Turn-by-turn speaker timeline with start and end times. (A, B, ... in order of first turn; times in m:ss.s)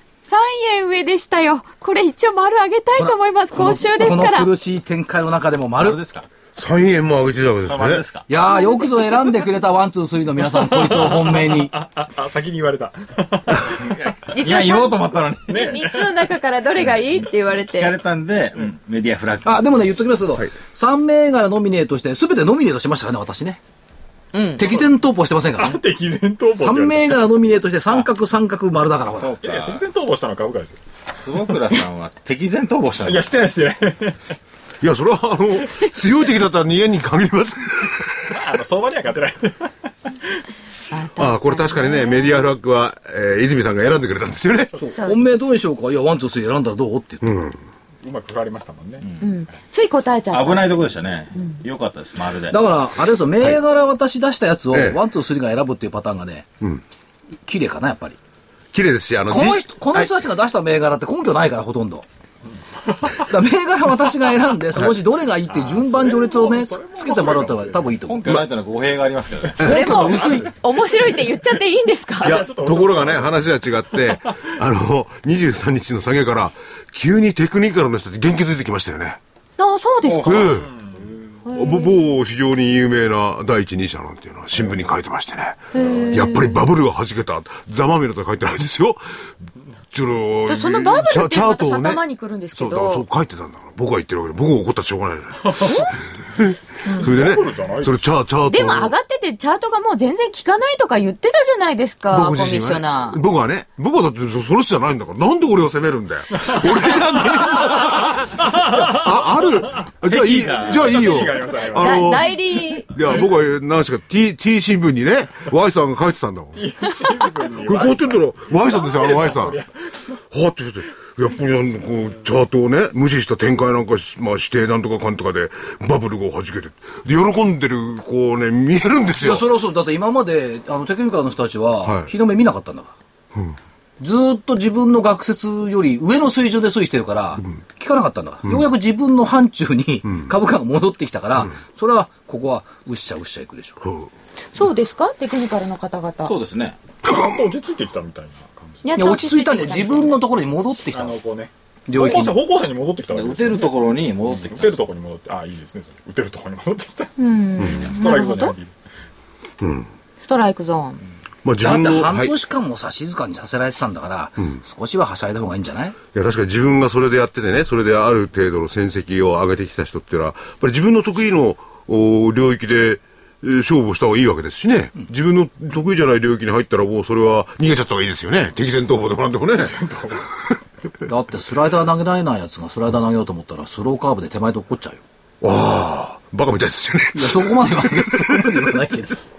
0:00.3-0:04.5 A
0:03.0-0:06.0 B
0:05.8-0:06.3 C
0:06.6-0:08.0 D
0:07.7-0:08.3 C
0:08.3-0:11.7 B
0:08.5-0:09.3 A
0:10.5-0:14.0 E
0:13.8-0:15.8 C
0:14.3-0:18.0 A
0:15.5-0:16.3 E
0:17.6-0:19.6 C
0:19.4-0:23.6 B
0:24.3-0:24.6 A
0:24.6-0:25.8 B
0:25.6-0:27.2 E
0:26.6-0:29.3 B
0:29.1-0:29.9 C
0:29.4-0:30.8 E
0:31.1-0:33.3 C
0:33.0-0:34.2 E
0:34.8-0:38.3 D
0:38.3-0:39.9 E
0:40.9-0:42.3 A
0:41.2-0:44.8 D
0:44.8-0:47.4 B
0:47.2-0:47.6 D
0:48.0-0:49.1 E
0:49.0-0:49.3 C
0:49.2-0:51.6 A
0:50.3-0:52.6 C
0:52.5-0:56.5 B
0:54.7-0:55.0 D
0:57.5-0:58.2 B
0:58.7-1:00.1 D
0:59.3-1:02.1 B
1:02.9-1:03.2 E
1:03.2-1:08.4 B
1:05.5-1:08.0 E
1:08.1-1:09.8 C
1:09.5-1:11.2 E
1:09.6-1:10.5 B
1:09.6-1:12.4 A
1:12.2-1:13.5 E
1:12.2-1:19.2 D
1:19.6-1:20.6 A
1:20.0-1:20.5 C
1:20.2-1:20.7 D
1:20.6-1:21.1 E
1:21.4-1:22.0 A
1:21.5-1:29.0 D
1:25.7-1:26.7 A
1:29.9-1:32.0 D
1:30.5-1:33.0 A
1:32.5-1:39.0 D
1:35.4-1:35.8 E
1:35.6-1:36.0 A
1:36.9-1:37.1 A
1:36.9-1:38.0 E
1:38.5-1:43.2 A
1:42.1-1:56.7 D
1:46.4-1:49.0 E
1:50.1-1:51.2 C
1:50.4-1:52.2 E
1:51.8-1:52.9 A
1:56.6-2:00.2 E
1:57.6-1:59.6 D
2:00.3-2:09.5 D
2:09.2-2:13.0 B
2:11.8-2:12.1 D
2:14.0-2:23.8 B
2:23.8-2:24.1 D
2:24.6-2:26.4 A
2:26.2-2:26.8 C
2:27.0-2:29.1 E
2:28.8-2:30.2 A
2:29.0-2:31.2 B
2:30.9-2:33.7 E
2:31.9-2:32.4 B
2:33.1-2:34.8 C
2:34.3-2:38.7 E
2:37.2-2:38.6 A
2:37.6-2:37.8 D
2:39.6-2:39.9 D
2:40.2-2:41.0 A
2:41.4-2:42.3 D
2:41.6-2:46.0 B
2:46.1-2:59.8 D
2:59.6-3:00.2 E
3:01.1-3:05.0 B
3:05.4-3:08.6 D
3:07.1-3:09.2 B